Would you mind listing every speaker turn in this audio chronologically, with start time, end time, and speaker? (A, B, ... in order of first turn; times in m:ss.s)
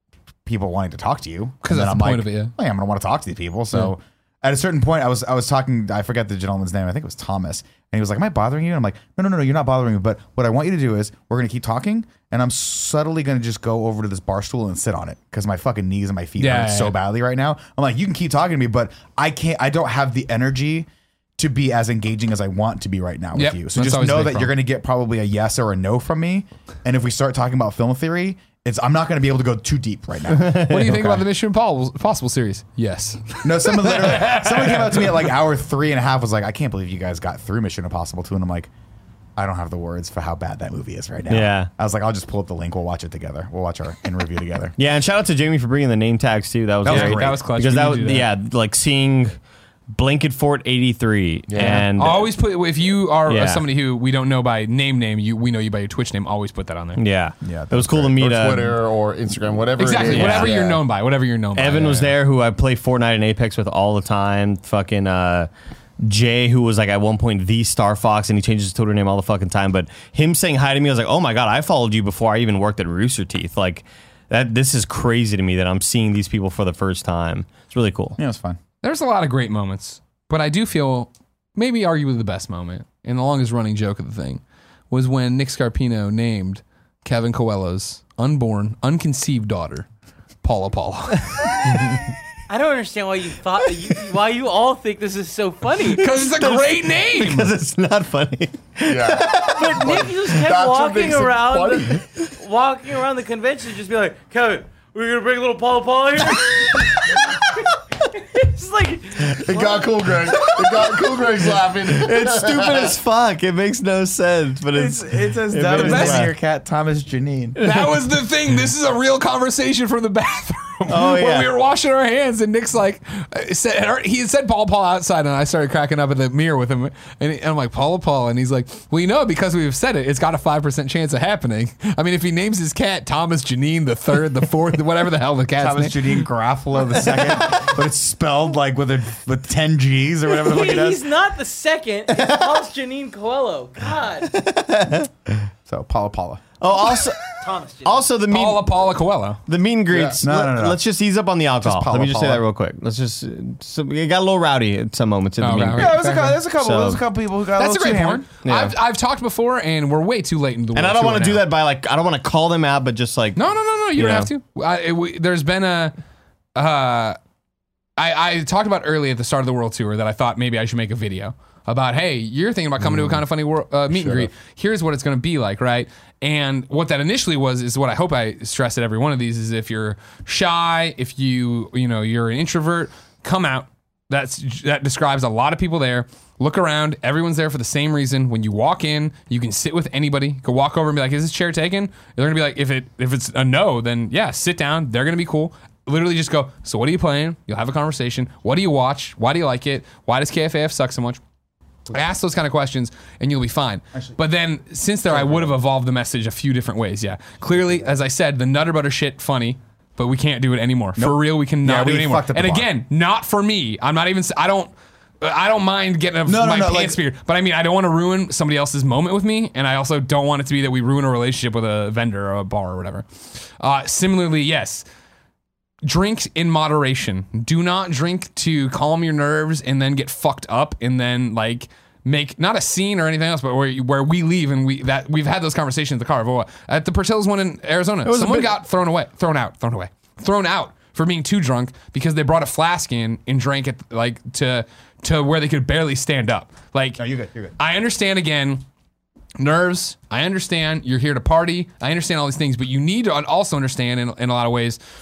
0:00.4-0:31.2 A
0:01.6-0:02.5 B
0:16.4-0:17.0 B
0:23.4-0:24.6 B
0:30.3-0:30.8 C
0:30.7-0:35.1 B
0:33.4-0:38.7 A
0:39.4-0:44.7 A
0:41.3-0:41.7 C
0:44.8-0:49.3 C
0:46.8-0:47.4 A
0:46.9-0:48.3 B
0:49.9-0:52.3 C
0:51.5-0:51.8 D
0:51.6-0:57.0 B
0:53.3-0:53.7 C
0:57.0-0:58.8 C
0:57.4-0:58.2 A
0:58.2-1:00.8 D
0:59.8-1:02.1 B
1:00.0-1:00.7 C
1:01.6-1:05.5 C
1:06.0-1:18.2 C
1:18.2-1:18.6 A
1:18.8-1:29.9 B
1:30.4-1:32.1 B
1:31.4-1:31.9 C
1:32.5-1:36.1 E
1:35.9-1:37.5 B
1:36.0-1:40.3 C
1:38.9-1:42.0 D
1:39.4-1:50.0 E
1:49.4-1:53.0 D
1:50.3-1:56.3 C
1:54.7-1:57.6 A
1:55.8-1:56.2 B
1:57.6-2:16.2 B
2:00.9-2:01.5 C
2:15.6-2:21.0 A
2:20.3-2:24.3 E
2:24.3-2:25.1 C
2:25.7-2:26.4 A
2:26.6-2:28.9 C
2:27.3-2:28.1 E
2:28.3-2:29.4 B
2:29.5-2:37.0 C
2:29.9-2:30.2 D
2:30.2-2:30.8 A
2:31.6-2:32.4 A
2:35.4-2:36.4 B
2:35.7-2:38.3 A
2:37.6-2:41.4 B
2:38.4-2:38.7 C
2:40.7-2:43.4 C
2:43.4-2:45.9 B
2:44.0-2:44.3 C
2:46.6-2:47.2 B
2:48.0-3:21.2 B
2:53.9-2:54.3 D
3:21.9-3:44.8 B
3:25.2-3:25.5 A
3:31.0-3:32.7 A
3:36.3-3:37.0 A
3:45.8-4:07.0 B
3:58.0-3:58.6 C
4:07.0-4:07.6 A
4:07.6-4:08.6 B
4:09.4-4:14.8 B